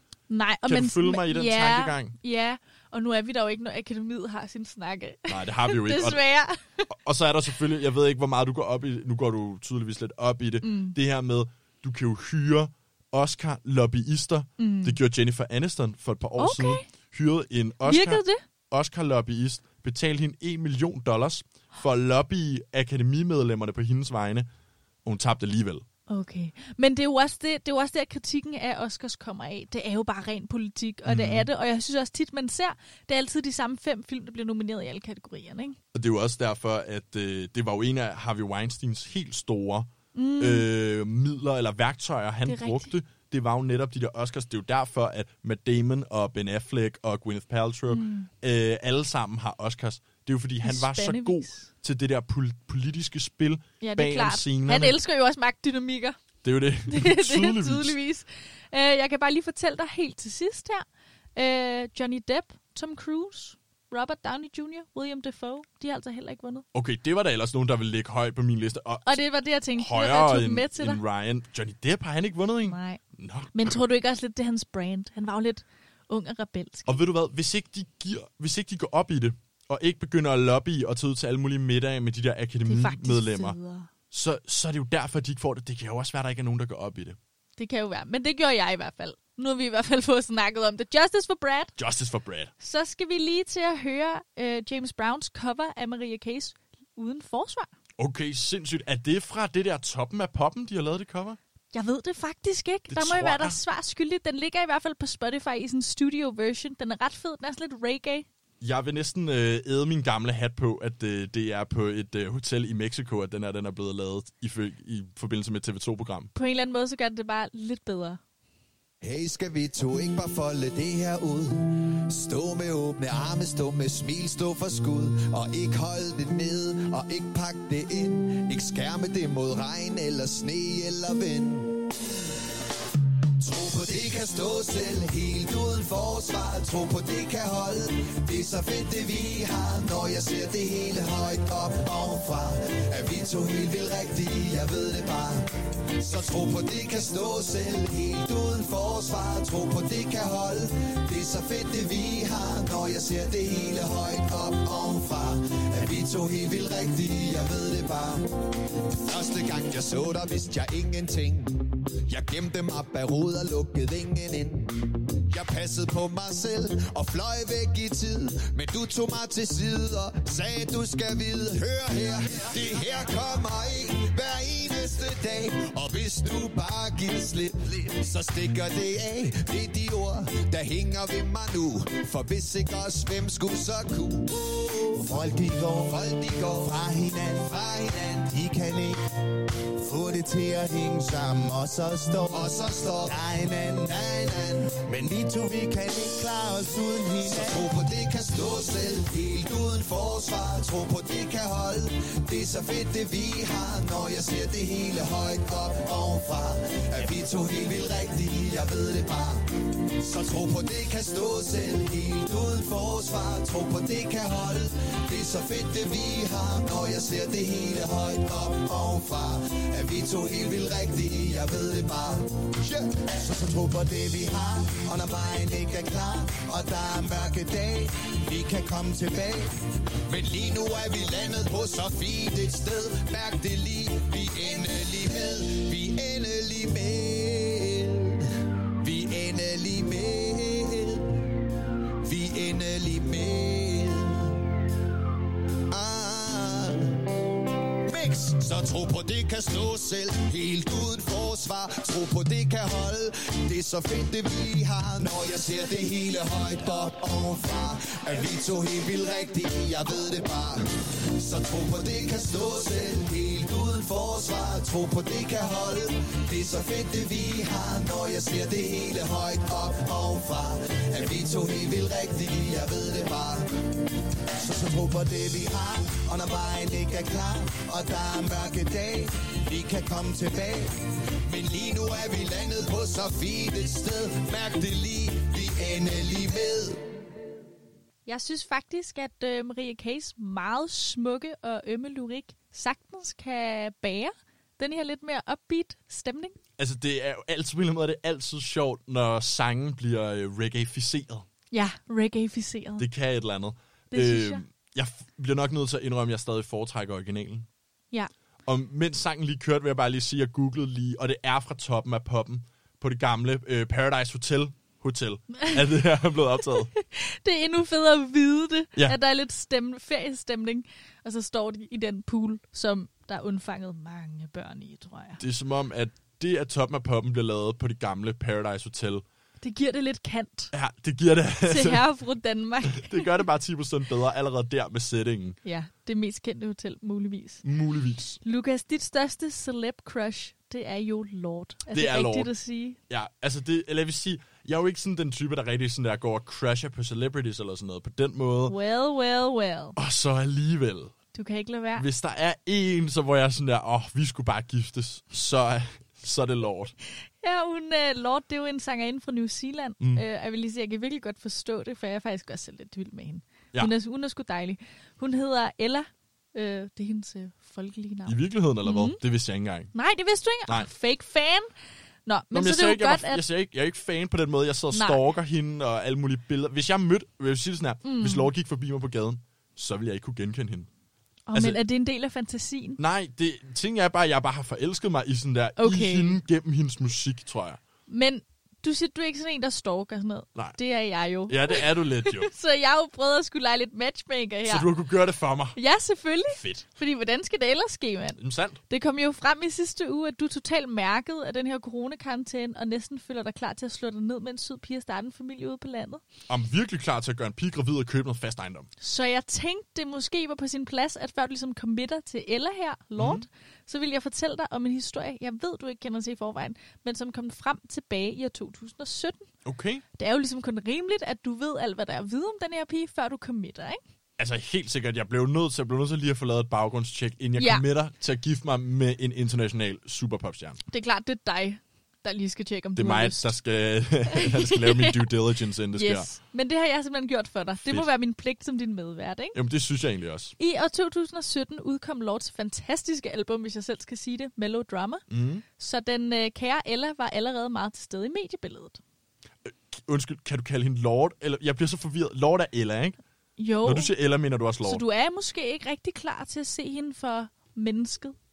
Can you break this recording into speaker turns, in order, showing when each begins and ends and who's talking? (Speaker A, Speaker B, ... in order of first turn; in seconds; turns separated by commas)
Speaker A: 0.3-6.9, Speaker B: 0.7-2.1, Speaker B: 5.3-6.2, Speaker B: 6.9-24.5, Speaker A: 10.6-10.9, Speaker A: 14.6-15.0, Speaker A: 16.4-16.9, Speaker A: 17.8-18.4, Speaker B: 25.0-25.8, Speaker A: 26.1-35.8, Speaker B: 31.1-31.5, Speaker B: 35.9-55.0, Speaker A: 40.1-40.6, Speaker A: 42.5-42.9, Speaker A: 47.9-48.3, Speaker A: 50.6-51.7, Speaker A: 53.8-56.2, Speaker B: 56.4-58.0, Speaker A: 56.9-60.8, Speaker A: 61.4-66.6, Speaker B: 66.7-69.2, Speaker A: 69.0-71.0, Speaker B: 69.8-73.8, Speaker A: 72.6-73.0, Speaker A: 73.5-77.0, Speaker B: 76.9-83.5, Speaker A: 82.6-83.9, Speaker B: 84.1-87.2, Speaker A: 87.6-91.7, Speaker B: 91.8-92.5, Speaker A: 92.6-97.7, Speaker B: 98.0-101.4, Speaker A: 101.7-108.3, Speaker B: 102.9-103.6, Speaker B: 108.6-116.3, Speaker A: 116.3-118.2, Speaker C: 119.0-132.0, Speaker C: 133.4-189.0, Speaker C: 189.8-241.2, Speaker C: 242.0-244.3, Speaker C: 245.7-247.1, Speaker C: 247.8-273.7, Speaker C: 274.4-286.9, Speaker A: 288.1-296.4, Speaker B: 296.6-301.2, Speaker A: 301.5-302.9, Speaker B: 302.8-307.5, Speaker A: 303.9-304.4, Speaker B: 308.4-316.7, Speaker A: 316.5-325.2, Speaker B: 325.2-329.0, Speaker A: 329.4-330.5, Speaker B: 330.5-331.8, Speaker A: 331.4-333.2, Speaker B: 332.6-335.4, Speaker A: 335.4-337.4, Speaker B: 337.4-338.2, Speaker A: 338.2-342.8, Speaker B: 341.7-342.3, Speaker B: 342.9-348.6, Speaker A: 348.5-349.8, Speaker B: 349.8-350.9, Speaker A: 351.1-351.9, Speaker B: 351.8-356.7, Speaker A: 357.2-369.0, Speaker B: 368.1-369.7, Speaker A: 369.7-371.5, Speaker A: 372.1-373.2, Speaker B: 372.3-380.7, Speaker A: 374.7-375.0, Speaker A: 377.8-378.3, Speaker A: 381.3-382.8, Speaker B: 382.8-387.6, Speaker A: 385.6-386.2, Speaker A: 387.9-394.7, Speaker B: 391.3-392.3, Speaker B: 394.5-395.6, Speaker A: 395.5-406.0, Speaker B: 396.3-396.6, Speaker B: 398.2-398.6, Speaker B: 406.3-408.7, Speaker A: 408.8-419.3, Speaker B: 413.0-413.2, Speaker B: 419.4-419.8, Speaker A: 419.9-423.8, Speaker B: 424.2-430.6, Speaker A: 427.4-427.6, Speaker A: 430.7-433.3, Speaker B: 432.8-436.1, Speaker A: 434.1-435.1, Speaker A: 435.7-439.4, Speaker B: 439.3-440.3, Speaker A: 440.4-445.0, Speaker B: 445.1-445.4, Speaker A: 445.6-448.8, Speaker B: 449.4-453.0, Speaker A: 453.4-453.9, Speaker B: 453.6-454.8, Speaker A: 454.6-458.1